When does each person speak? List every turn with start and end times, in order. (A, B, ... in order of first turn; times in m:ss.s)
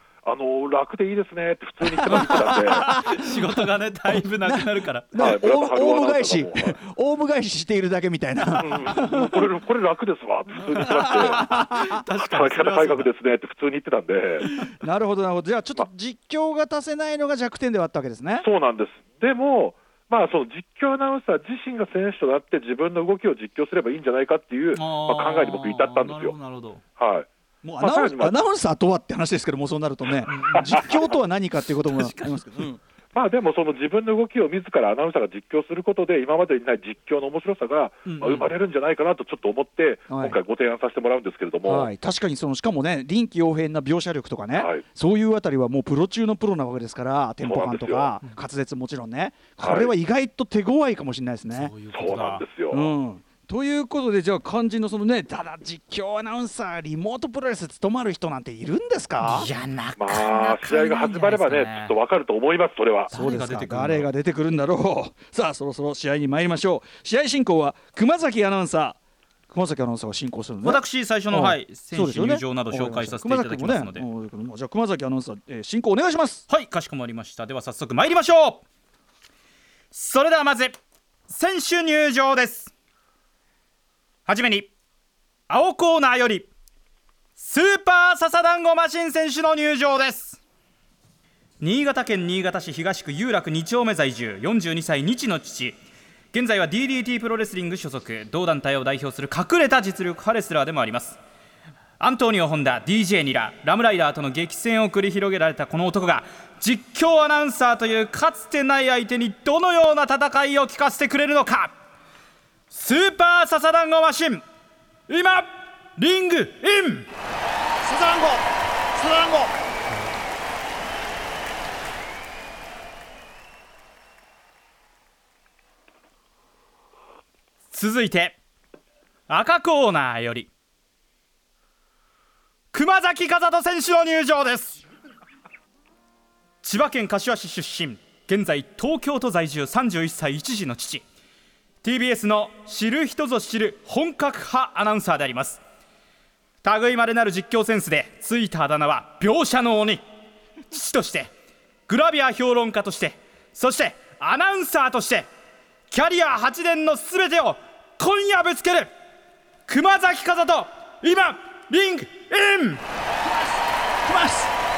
0:00.2-0:02.9 A
0:01.8-0:09.4 B
0:02.1-0:05.4 C
0:05.2-0:06.8 A
0:08.6-0:11.4 A
0:10.8-0:13.1 C
0:11.1-0:12.0 B
0:12.2-0:14.5 A
0:14.6-0:18.5 B
0:18.4-0:26.4 A
0:24.8-0:26.8 C
0:27.0-0:27.3 A
0:27.6-0:32.8 B
0:27.8-0:28.4 A
0:30.3-0:31.0 C
0:30.5-0:30.9 A
0:31.9-0:32.6 C
0:33.1-0:41.9 A
0:38.0-0:38.5 C
0:40.1-0:40.4 B
0:41.6-0:51.7 B
0:44.6-0:44.8 A
0:47.4-0:48.2 A
0:49.6-0:49.9 A
0:51.5-0:52.4 C
0:51.9-0:52.9 A
0:52.7-0:59.5 B
0:59.2-1:01.9 C
1:00.0-1:03.1 A
1:03.1-1:04.1 C
1:03.1-1:09.0 B
1:09.5-1:16.5 B
1:10.6-1:14.1 C
1:16.5-1:18.6 C
1:19.9-1:20.8 C
1:21.3-1:22.7 C
1:24.3-1:24.7 C
1:25.5-1:26.5 C
1:27.4-1:30.4 C
1:31.6-1:35.8 C
1:36.3-1:41.2 C
1:42.0-1:51.7 C
1:52.7-1:54.4 C
1:55.1-1:57.1 C
1:57.8-1:59.5 B
2:07.7-2:08.4 C
2:09.3-2:10.5 C
2:12.7-2:14.8 C
2:16.6-2:21.0 C
2:21.8-2:25.6 C
2:26.6-2:30.0 C
2:30.7-2:31.3 C
2:31.9-2:35.3 C
2:35.9-2:38.9 C
2:39.7-2:42.8 C
2:43.3-2:43.5 B
2:44.0-2:44.5 B